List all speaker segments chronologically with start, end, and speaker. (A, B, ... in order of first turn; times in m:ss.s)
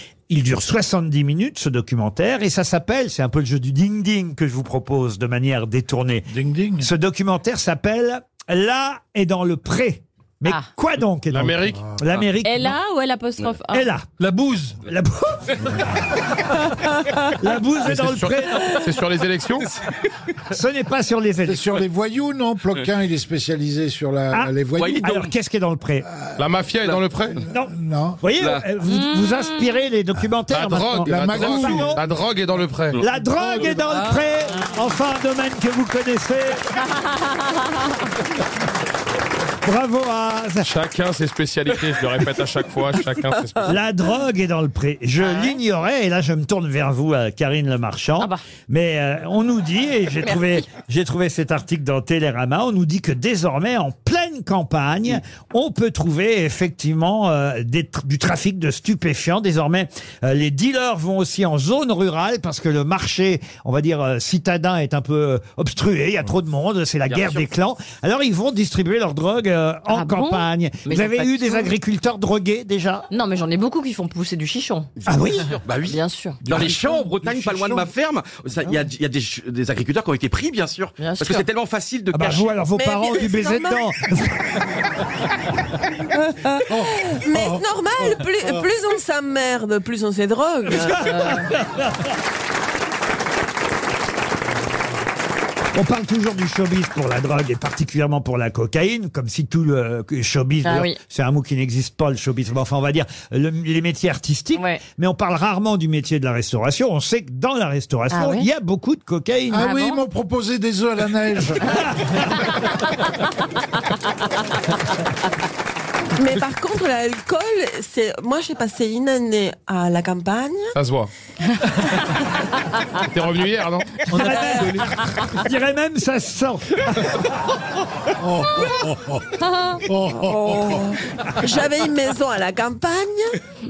0:00.3-0:12.8 A
0:06.3-0:06.9 B
0:11.3-0:11.8 C
0:12.4-0:13.9 D
0:13.7-0:14.1 A
0:14.2-0:14.8 E
0:14.8-0:15.6 A
0:17.4-0:18.8 A
0:17.9-0:19.7 C
0:20.5-0:21.7 A
0:21.4-0:25.1 B
0:24.3-0:26.1 A
0:24.8-0:25.3 F
0:26.1-0:26.4 B
0:26.4-0:27.4 C
0:27.5-0:28.2 B
0:27.5-0:32.0 A
0:28.4-0:28.6 F
0:28.9-0:29.5 D
0:30.5-0:33.0 C
0:31.0-0:32.0 B
0:33.0-0:36.6 A
0:33.8-0:34.3 E
0:39.6-0:40.7 A
0:40.6-0:43.8 C
0:43.6-1:13.1 A
0:45.2-0:45.6 D
0:50.2-0:50.6 D
1:07.1-1:07.5 F
1:09.9-1:11.7 D
1:13.1-1:14.9 D
1:15.0-1:22.5 F
1:15.1-1:15.6 A
1:15.9-1:16.4 D
1:16.4-1:17.9 B
1:21.0-1:21.4 D
1:22.1-1:24.6 A
1:22.8-1:23.8 G
1:26.5-1:31.3 G
1:26.7-1:27.6 B
1:30.7-1:32.0 A
1:31.0-1:31.4 D
1:35.7-1:49.7 A
1:40.6-1:41.0 D
1:44.6-1:44.8 D
1:48.1-1:48.5 D
1:49.5-1:51.7 B
1:49.6-1:50.0 D
1:56.2-2:00.7 G
2:00.7-2:01.1 C
2:03.0-2:04.1 C
2:04.1-2:04.9 E
2:04.1-2:07.2 A
2:08.2-2:09.2 B
2:09.4-2:09.8 D
2:09.9-2:10.8 B
2:10.1-2:13.4 G